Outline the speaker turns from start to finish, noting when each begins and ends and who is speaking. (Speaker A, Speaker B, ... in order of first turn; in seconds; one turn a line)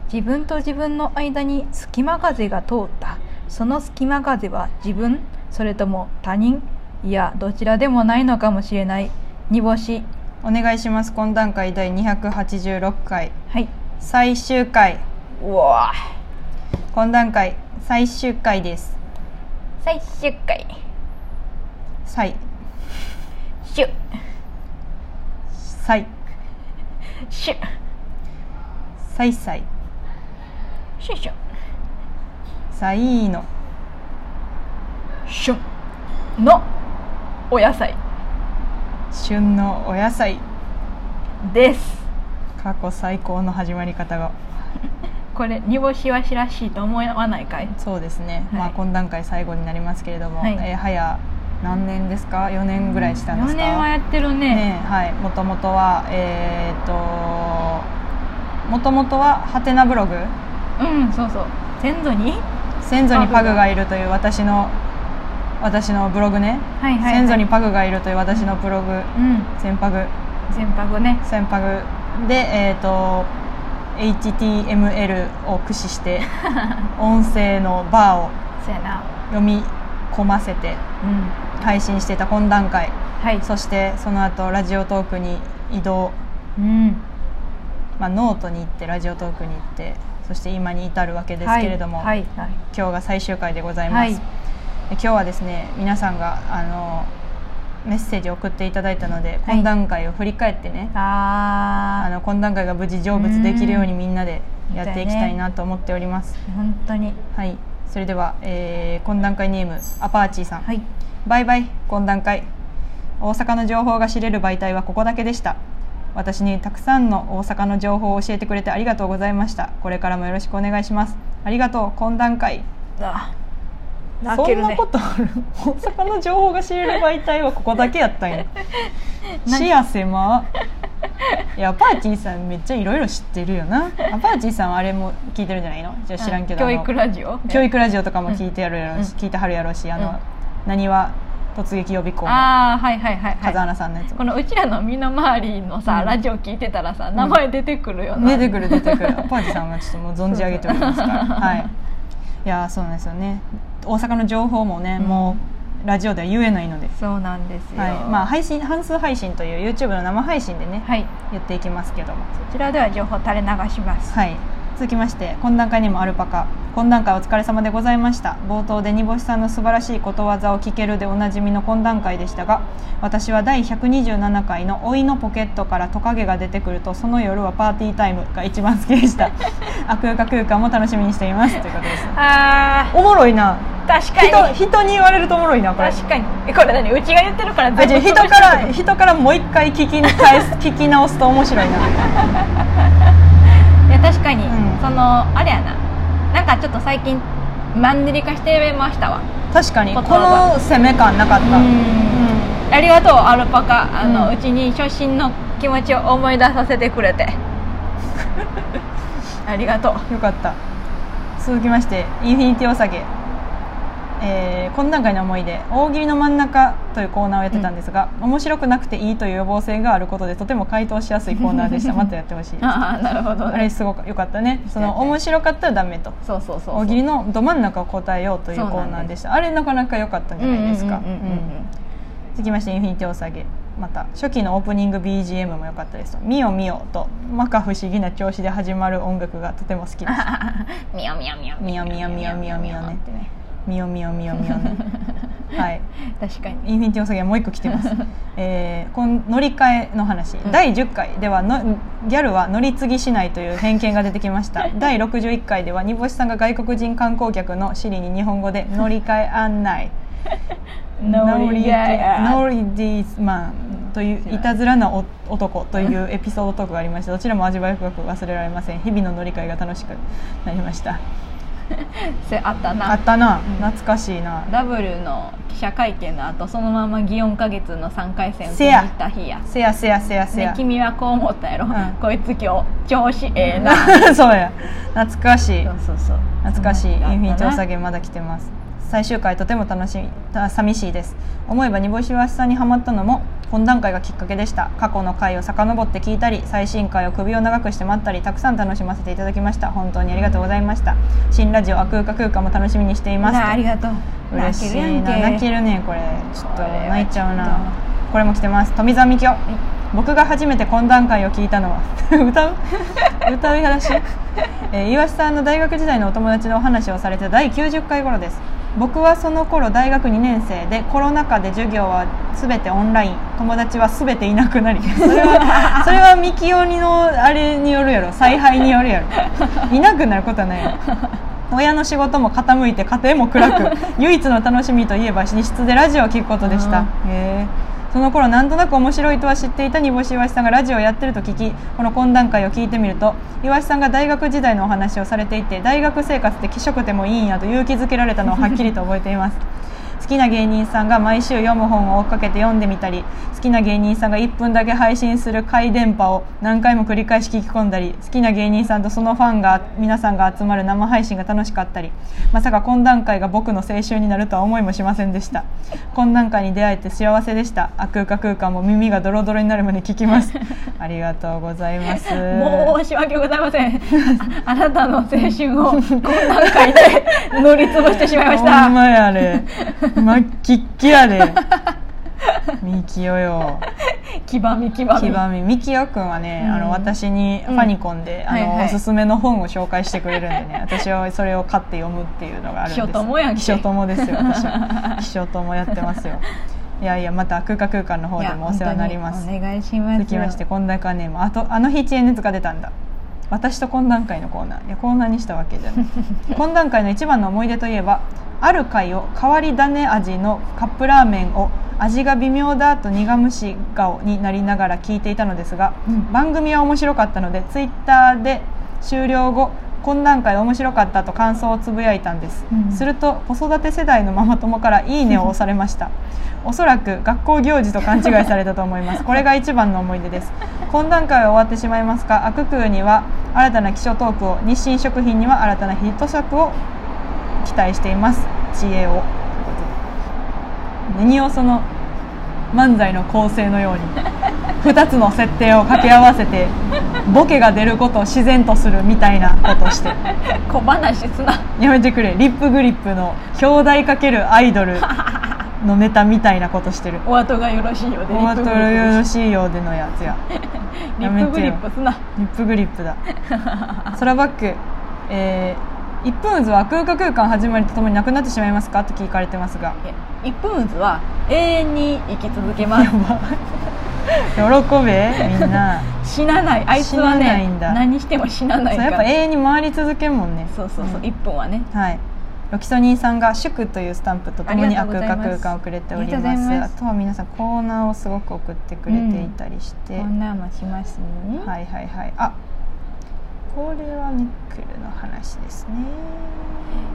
Speaker A: 0.1-10.1
Speaker B: 10.4-13.3
Speaker B: 14.0-15.0
Speaker A: 15.4-16.1
Speaker B: 16.9-19.0
Speaker A: 19.8-20.7
Speaker B: 22.1-22.4
Speaker A: 23.6-23.9
Speaker B: 25.6-26.1
Speaker A: 27.3-27.6
Speaker B: 29.1-29.7
Speaker A: 31.0-31.4
Speaker B: 32.7-33.5
Speaker A: 35.3-35.6
Speaker A: 36.4-36.7
Speaker A: 37.5-38.0
Speaker B: 39.1-40.4
Speaker A: 41.4-42.1
Speaker B: 42.6-44.4
Speaker A: 45.3-47.8
Speaker B: 47.8-53.9
Speaker A: 53.0-54.7
Speaker B: 54.5-57.9
Speaker B: 58.7-60.3
Speaker A: 60.8-62.5
Speaker B: 62.8-64.8
Speaker A: 63.1-63.6
Speaker B: 65.6-70.1
Speaker A: 66.8-67.4
Speaker A: 69.2-69.5
Speaker A: 70.5-71.2
Speaker B: 71.2-73.3
Speaker B: 74.0-76.3
Speaker B: 76.9-78.4
Speaker A: 78.6-79.1
Speaker B: 79.3-80.8
Speaker A: 81.0-81.4
Speaker B: 81.6-86.2
Speaker A: 83.2-83.5
Speaker A: 86.6-87.1
Speaker B: 88.0-92.1
Speaker A: 91.4-92.6
Speaker B: 92.7-94.2
Speaker A: 93.9-94.2
Speaker B: 94.9-97.1
Speaker B: 97.8-100.9
Speaker A: 100.9-102.1
Speaker B: 102.0-106.4
Speaker A: 103.1-103.9
Speaker A: 104.7-105.3
Speaker A: 106.5-107.2
Speaker B: 107.3-110.7
Speaker B: 111.3-112.5
Speaker B: 113.2-115.6
Speaker B: 116.2-122.7
Speaker A: 123.0-123.3
Speaker A: 124.2-124.9
Speaker B: 124.2-128.5
Speaker B: 129.4-130.5
Speaker B: 131.6-136.9
Speaker A: 136.2-137.6
Speaker B: 137.5-142.5
Speaker A: 142.2-143.6
Speaker B: 143.4-144.2
Speaker A: 144.1-149.3
Speaker B: 145.9-146.2
Speaker B: 148.2-151.7
Speaker A: 150.3-151.7
Speaker B: 152.4-156.9
Speaker A: 155.0-155.4
Speaker A: 156.9-158.3
Speaker B: 157.8-162.3
Speaker A: 160.8-161.1
Speaker A: 162.4-164.1
Speaker B: 164.1-182.2
Speaker A: 182.0-183.0
Speaker B: 182.9-186.0
Speaker A: 183.9-184.6
Speaker A: 185.8-188.8
Speaker B: 187.8-192.0
Speaker A: 190.0-190.4
Speaker A: 192.1-192.9
Speaker A: 193.7-199.3
Speaker B: 194.5-194.8
Speaker B: 199.5-202.6
Speaker A: 199.9-200.5
Speaker A: 201.4-207.4
Speaker B: 204.0-204.3
Speaker A: 209.4-210.1
Speaker B: 210.1-210.6
Speaker B: 211.4-213.1
Speaker B: 214.2-226.2
Speaker A: 221.5-222.0
Speaker A: 222.6-223.7
Speaker A: 224.8-225.2
Speaker A: 226.2-227.0
Speaker B: 226.7-231.5
Speaker A: 228.5-229.1
Speaker A: 230.4-231.7
Speaker B: 232.3-240.3
Speaker A: 240.1-243.3
Speaker B: 241.6-243.0
Speaker B: 243.7-244.9
Speaker A: 244.5-245.1
Speaker B: 245.5-245.9
Speaker A: 246.2-246.7
Speaker B: 246.6-259.9
Speaker A: 261.0-262.4
Speaker B: 261.0-271.0
Speaker A: 271.7-273.7
Speaker B: 272.9-274.5
Speaker A: 274.5-279.5
Speaker B: 278.5-278.9
Speaker B: 279.5-280.6
Speaker A: 280.3-284.2
Speaker B: 283.5-285.7
Speaker A: 285.6-287.6
Speaker B: 286.4-303.6
Speaker A: 303.2-305.5
Speaker B: 304.3-314.1
Speaker A: 306.4-307.8
Speaker B: 314.6-330.8
Speaker A: 325.0-325.9
Speaker B: 331.5-349.4
Speaker A: 336.4-336.9
Speaker B: 350.0-372.7
Speaker A: 371.9-378.8
Speaker B: 375.9-376.8
Speaker B: 377.9-381.5
Speaker A: 379.5-380.0
Speaker A: 381.4-381.7
Speaker B: 382.6-383.7
Speaker A: 383.8-385.2
Speaker B: 384.9-396.3
Speaker A: 386.4-386.9
Speaker A: 388.3-388.8
Speaker A: 392.7-395.0
Speaker B: 396.8-399.3
Speaker A: 398.2-400.4
Speaker B: 400.0-402.7
Speaker B: 403.3-425.9
Speaker A: 422.5-422.9
Speaker B: 426.4-436.6
Speaker B: 437.4-439.8
Speaker B: 440.9-441.7
Speaker B: 442.5-444.0
Speaker B: 444.6-450.0
Speaker A: 450.1-451.5
Speaker B: 451.6-455.0
Speaker B: 455.6-457.0
Speaker A: 457.0-459.1
Speaker B: 458.1-460.2
Speaker A: 460.3-462.0
Speaker B: 461.0-461.6
Speaker B: 462.2-463.0
Speaker A: 463.3-463.9
Speaker B: 463.9-469.8
Speaker A: 469.8-472.9
Speaker B: 472.6-473.4
Speaker B: 474.2-475.9
Speaker A: 475.2-479.1
Speaker B: 476.7-477.8
Speaker B: 478.7-481.1
Speaker A: 480.5-481.7
Speaker B: 481.7-490.1
Speaker A: 484.5-486.7
Speaker A: 488.9-489.3
Speaker A: 490.0-491.5
Speaker B: 491.4-492.4
Speaker B: 493.5-496.7